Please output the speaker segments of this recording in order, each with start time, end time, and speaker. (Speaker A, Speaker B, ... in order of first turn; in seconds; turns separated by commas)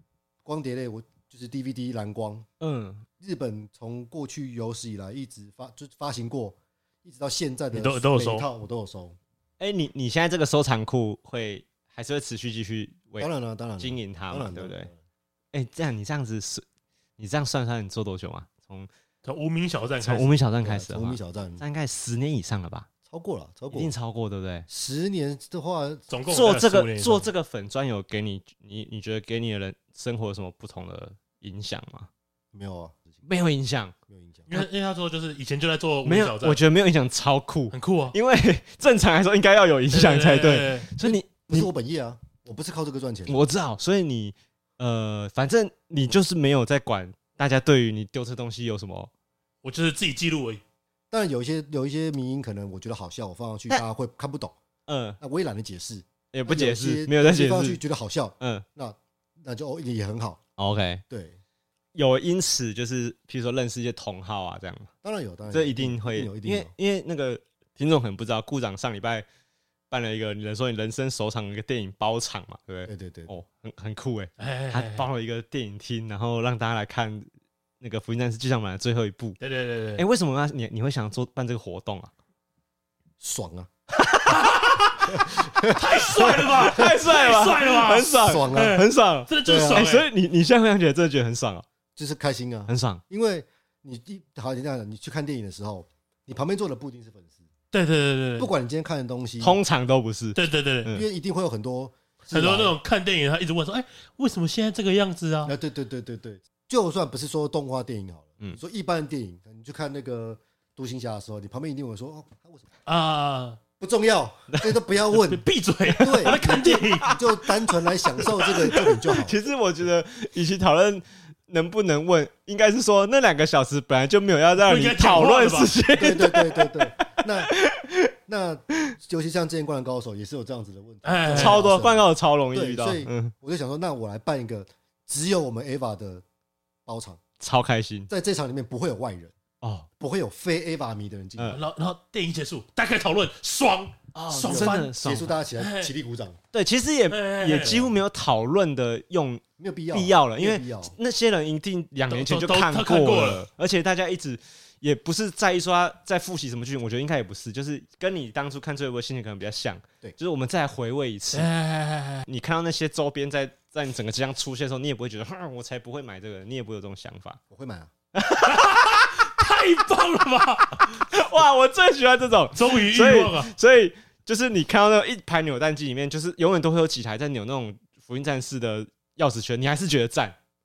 Speaker A: 0.5-2.5, Speaker B: 2.6-3.1, Speaker A: 3.2-9.2, Speaker C: 7.7-8.5, Speaker B: 9.6-14.9, Speaker A: 13.2-15.0, Speaker B: 15.5-16.6, Speaker B: 17.2-18.9, Speaker C: 19.2-20.3, Speaker B: 20.0-22.9, Speaker A: 20.6-21.6, Speaker A: 23.1-23.9, Speaker B: 23.7-24.7, Speaker A: 24.7-26.0, Speaker C: 26.1-27.3, Speaker B: 26.3-32.1, Speaker A: 32.5-33.2, Speaker B: 33.2-34.0, Speaker A: 34.1-34.5, Speaker C: 34.5-36.6, Speaker B: 36.0-41.7, Speaker C: 37.7-38.1, Speaker C: 39.9-40.9, Speaker A: 41.0-43.4, Speaker B: 43.3-49.1, Speaker C: 49.6-50.6, Speaker A: 51.1-54.5, Speaker B: 54.9-55.2, Speaker A: 55.2-60.4, Speaker B: 56.3-57.8, Speaker B: 58.4-58.6, Speaker B: 60.6-61.0, Speaker A: 61.1-61.4, Speaker B: 62.0-64.9, Speaker A: 65.0-66.7, Speaker B: 65.5-69.2, Speaker B: 69.9-77.3, Speaker A: 72.9-73.3, Speaker C: 74.4-75.1, Speaker B: 77.8-79.4, Speaker C: 79.4-80.0, Speaker B: 80.0-82.1, Speaker A: 83.2-83.7, Speaker B: 84.0-85.0, Speaker C: 84.3-84.8, Speaker A: 85.1-87.0, Speaker C: 85.6-90.1, Speaker B: 86.6-91.7, Speaker A: 88.2-88.8, Speaker A: 89.4-89.9, Speaker A: 92.0-97.4, Speaker B: 92.7-93.0, Speaker C: 97.7-98.5, Speaker A: 98.4-99.6, Speaker B: 99.4-101.0, Speaker C: 100.4-100.9, Speaker A: 100.9-102.8, Speaker C: 102.3-105.5, Speaker A: 105.5-112.7, Speaker C: 112.9-113.6, Speaker A: 113.8-115.5, Speaker C: 115.1-117.3, Speaker A: 116.0-119.4, Speaker B: 118.4-128.1, Speaker C: 124.7-125.7, Speaker A: 126.0-127.5, Speaker A: 128.3-136.2, Speaker C: 131.0-131.6, Speaker B: 131.3-133.3, Speaker A: 136.9-137.2, Speaker B: 137.4-138.1, Speaker A: 138.1-139.3, Speaker B: 139.6-139.9, Speaker A: 140.0-141.6, Speaker C: 141.5-145.0, Speaker B: 144.1-145.3, Speaker A: 144.4-146.4, Speaker C: 145.6-145.9, Speaker B: 146.5-161.5, Speaker C: 147.1-147.9, Speaker A: 149.6-150.9, Speaker C: 152.1-153.4, Speaker C: 161.3-162.2, Speaker B: 162.2-167.4, Speaker A: 167.5-167.9, Speaker B: 168.2-168.9, Speaker C: 168.4-171.1, Speaker B: 170.9-180.4, Speaker C: 172.6-173.5